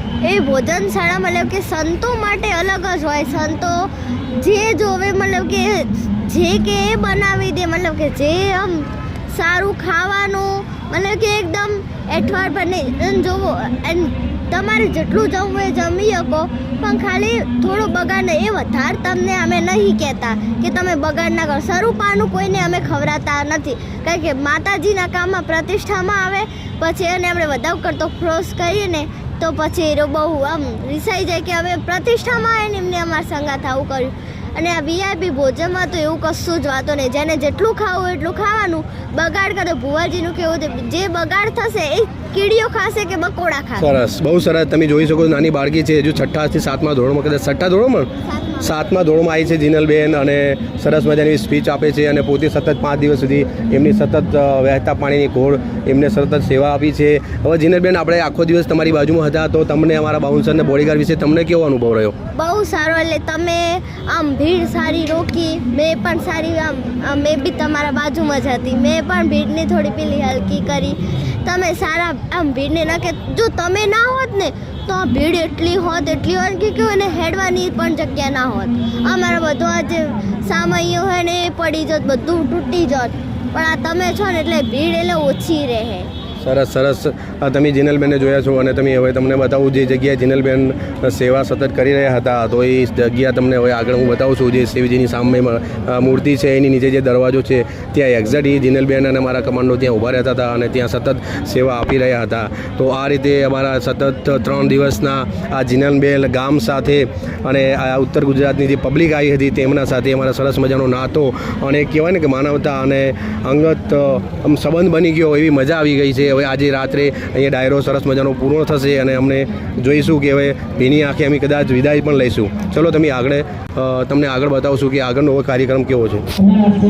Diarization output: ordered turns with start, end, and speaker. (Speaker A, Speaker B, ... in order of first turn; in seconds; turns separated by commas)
Speaker A: 0.2-43.9, Speaker B: 43.8-48.1, Speaker A: 48.3-48.7, Speaker B: 48.6-62.1, Speaker A: 62.3-86.1, Speaker B: 86.4-126.3